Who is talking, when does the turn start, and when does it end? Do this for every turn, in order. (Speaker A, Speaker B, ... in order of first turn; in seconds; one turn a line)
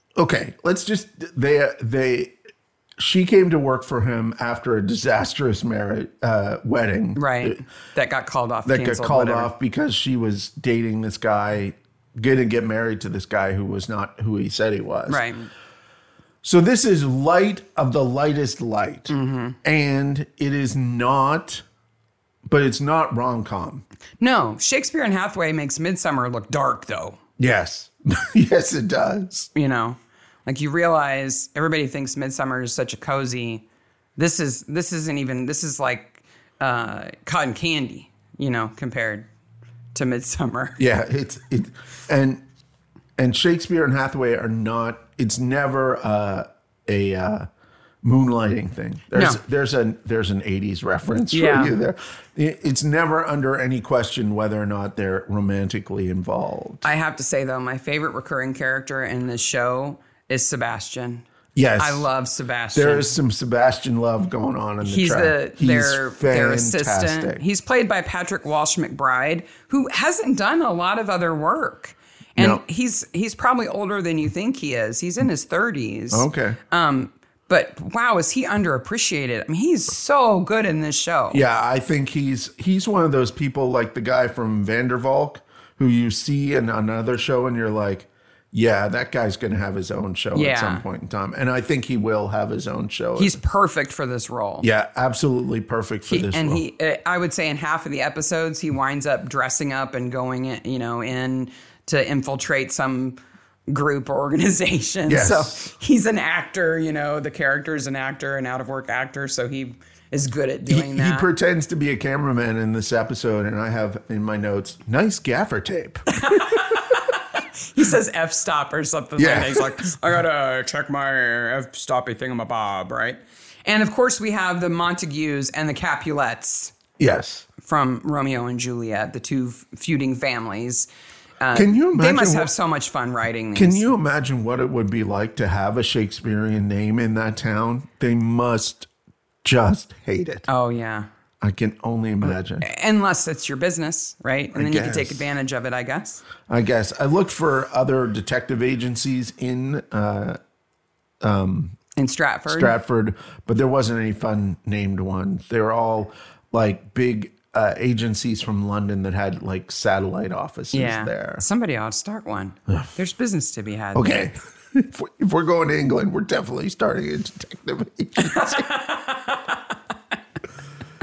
Speaker A: 0.2-2.3
Speaker A: 3.0-7.6
Speaker B: 7.2-9.5
Speaker A: 8.7-15.2
Speaker B: 15.1-15.5
Speaker A: 16.4-21.6
Speaker B: 19.1-19.6
Speaker A: 22.5-23.8
Speaker B: 24.2-27.2
Speaker A: 27.4-29.5
Speaker B: 29.5-33.6
Speaker B: 34.2-39.3
Speaker B: 39.9-40.8
Speaker A: 40.8-42.4
Speaker A: 43.2-47.5
Speaker A: 48.0-56.9
Speaker B: 49.1-49.4
Speaker B: 51.3-51.7
Speaker B: 56.8-61.3
Speaker A: 61.5-62.1
Speaker B: 61.8-63.1
Speaker A: 62.7-67.4
Speaker B: 64.8-81.4
Speaker A: 72.4-72.6
Speaker A: 76.1-76.6
Speaker A: 81.3-93.4
Speaker B: 90.3-90.8
Speaker B: 93.2-94.7
Speaker A: 94.6-96.6
Speaker B: 96.1-103.2
Speaker B: 103.7-111.3
Speaker A: 105.1-105.6
Speaker A: 110.7-116.8
Speaker B: 116.1-126.7
Speaker A: 119.2-119.9
Speaker A: 127.0-127.5
Speaker B: 127.6-130.9
Speaker B: 131.4-133.8
Speaker A: 131.5-132.5
Speaker A: 133.5-138.9
Speaker A: 139.4-140.5
Speaker B: 140.5-141.1
Speaker A: 141.4-142.7
Speaker B: 142.6-146.2
Speaker A: 144.5-145.2
Speaker A: 146.5-150.4
Speaker A: 151.2-151.8
Speaker B: 151.9-152.7
Speaker A: 152.5-161.4
Speaker B: 160.7-164.3
Speaker A: 163.9-168.7
Speaker B: 168.2-169.8